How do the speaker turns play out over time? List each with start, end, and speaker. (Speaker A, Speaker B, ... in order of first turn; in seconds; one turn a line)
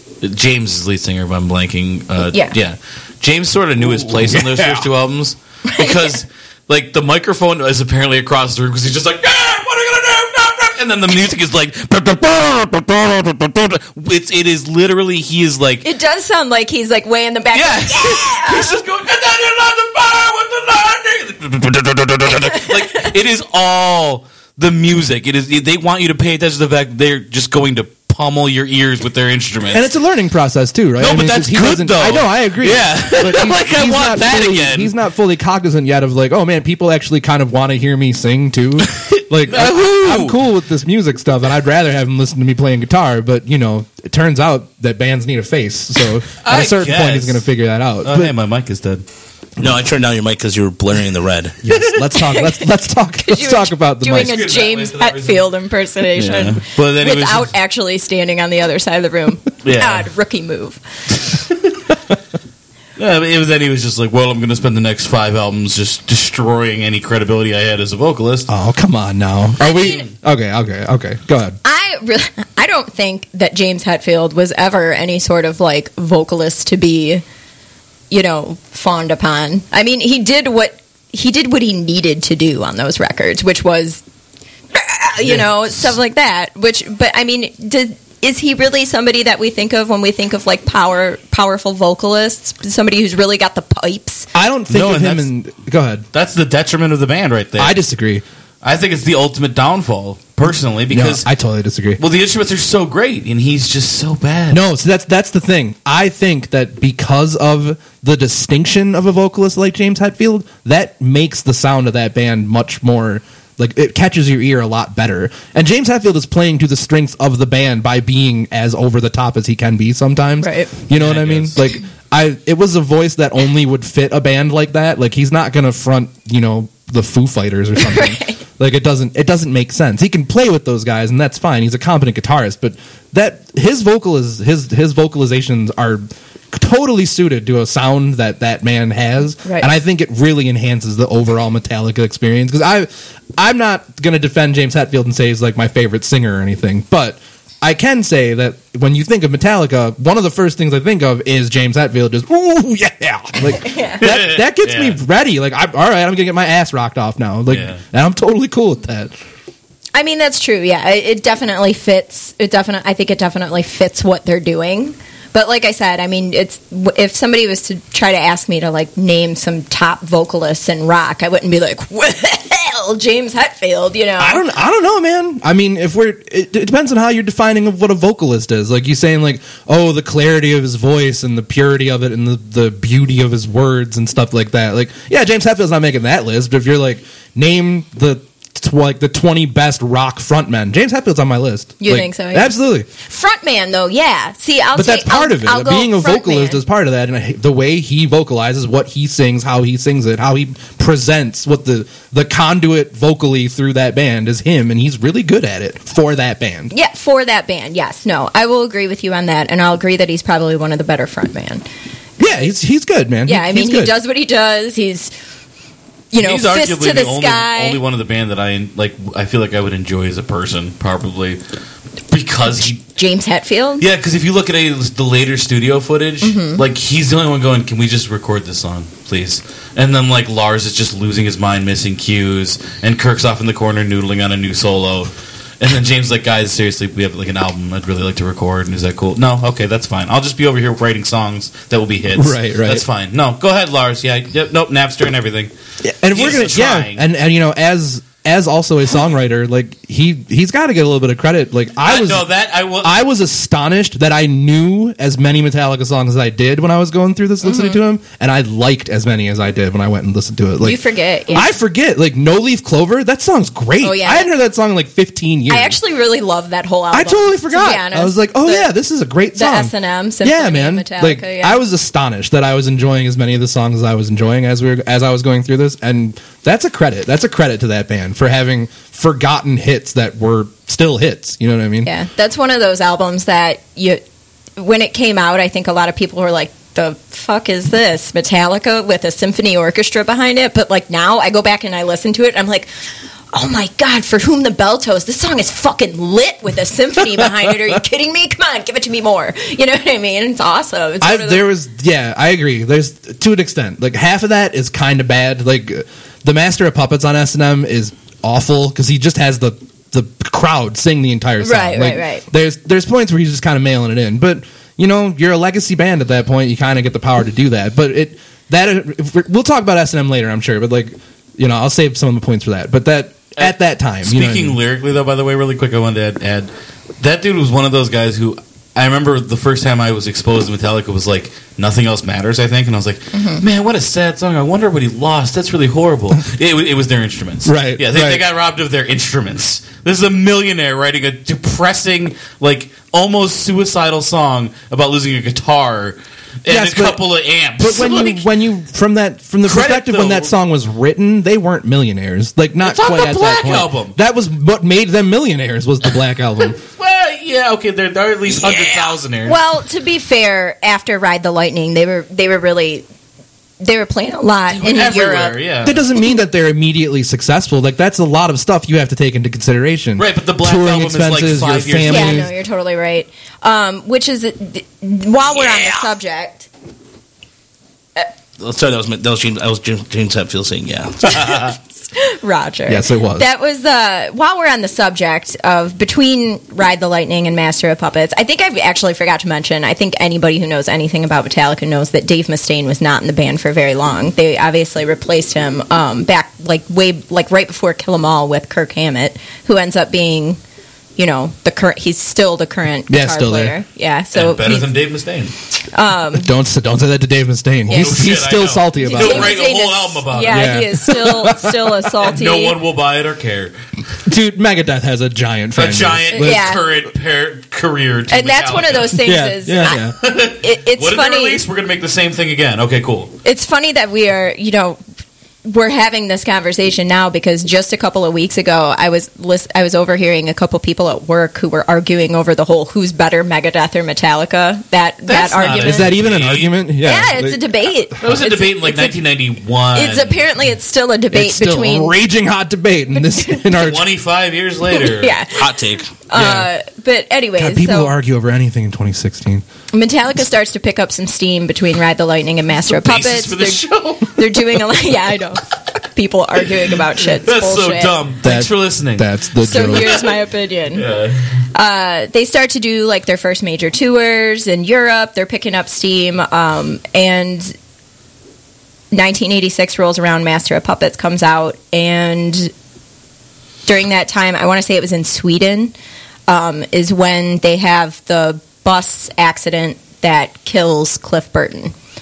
Speaker A: 0.2-15.9
Speaker B: 4.1-4.9
Speaker C: 5.7-6.2
Speaker C: 15.8-18.8
Speaker A: 17.5-29.9
Speaker C: 22.4-23.0
Speaker B: 29.7-48.3
Speaker A: 31.0-34.9
Speaker A: 38.8-40.4
Speaker A: 46.4-47.5
Speaker A: 48.0-49.0
Speaker D: 49.6-51.6
Speaker B: 51.6-54.4
Speaker C: 52.2-52.6
Speaker C: 53.2-60.8
Speaker A: 54.1-55.5
Speaker A: 56.2-57.5
Speaker A: 59.6-60.1
Speaker A: 61.3-61.7
Speaker A: 63.0-68.5
Speaker B: 68.5-71.6
Speaker C: 69.6-70.0
Speaker C: 71.6-77.2
Speaker C: 78.1-84.0
Speaker C: 84.7-94.3
Speaker B: 94.3-96.0
Speaker A: 94.7-95.3
Speaker A: 96.1-97.8
Speaker B: 97.6-98.2
Speaker A: 98.6-101.3
Speaker B: 100.9-102.0
Speaker A: 102.0-104.6
Speaker B: 104.5-159.1
Speaker C: 120.4-120.7
Speaker A: 120.9-121.6
Speaker C: 127.8-128.4
Speaker C: 153.6-154.0
Speaker A: 154.0-155.0
Speaker A: 157.5-157.8
Speaker C: 159.9-174.4
Speaker B: 174.2-192.9
Speaker C: 191.8-196.6
Speaker B: 194.8-206.7
Speaker C: 206.7-211.7
Speaker B: 212.2-213.9
Speaker C: 213.3-215.1
Speaker C: 216.1-217.8
Speaker A: 216.2-221.4
Speaker A: 222.1-222.8
Speaker C: 222.8-223.8
Speaker A: 223.8-245.5
Speaker C: 226.2-226.6
Speaker B: 242.2-242.8
Speaker B: 245.8-252.3
Speaker A: 246.1-247.0
Speaker A: 251.8-253.0
Speaker B: 252.8-260.8
Speaker C: 257.5-257.8
Speaker C: 260.6-261.6
Speaker B: 261.3-265.8
Speaker C: 263.8-264.3
Speaker C: 265.5-268.7
Speaker B: 266.9-269.7
Speaker C: 269.3-271.6
Speaker B: 270.2-281.9
Speaker C: 281.9-284.0
Speaker C: 284.6-292.7
Speaker C: 293.3-301.5
Speaker B: 301.0-324.6
Speaker C: 311.4-312.2
Speaker A: 323.4-348.2
Speaker C: 333.1-333.4
Speaker B: 337.4-338.2
Speaker B: 346.5-347.0
Speaker B: 347.6-356.6
Speaker A: 349.4-350.3
Speaker A: 352.6-353.9
Speaker A: 356.6-359.4
Speaker D: 358.4-358.9
Speaker C: 359.2-362.9
Speaker C: 363.6-365.4
Speaker A: 364.5-365.8
Speaker B: 365.6-372.3
Speaker A: 370.0-372.3
Speaker C: 371.9-376.5
Speaker D: 378.4-381.5
Speaker C: 381.9-400.4
Speaker B: 382.7-383.3
Speaker C: 401.0-404.7
Speaker B: 402.9-403.6
Speaker A: 404.1-405.3
Speaker C: 405.7-406.3
Speaker B: 406.1-409.4
Speaker C: 407.7-408.1
Speaker A: 407.7-410.6
Speaker C: 408.8-412.6
Speaker B: 410.3-411.9
Speaker A: 412.0-413.5
Speaker B: 414.1-416.6
Speaker A: 415.6-419.0
Speaker C: 416.1-416.6
Speaker C: 418.1-421.4
Speaker B: 419.0-419.9
Speaker A: 419.7-423.1
Speaker C: 423.2-424.8
Speaker C: 425.4-436.0
Speaker A: 435.1-436.5
Speaker B: 435.6-437.5
Speaker C: 436.8-438.9
Speaker A: 438.0-440.2
Speaker C: 439.7-442.0
Speaker B: 441.1-443.9
Speaker C: 443.0-443.4
Speaker A: 443.5-445.2
Speaker C: 444.7-447.9
Speaker D: 445.4-445.9
Speaker B: 446.1-446.5
Speaker B: 447.4-449.4
Speaker C: 449.7-458.0
Speaker A: 452.6-454.6
Speaker A: 457.1-460.1
Speaker B: 458.2-460.1
Speaker C: 459.4-460.9
Speaker A: 460.7-461.3
Speaker C: 461.5-467.5
Speaker C: 468.9-472.5
Speaker C: 473.7-475.7
Speaker C: 476.3-481.7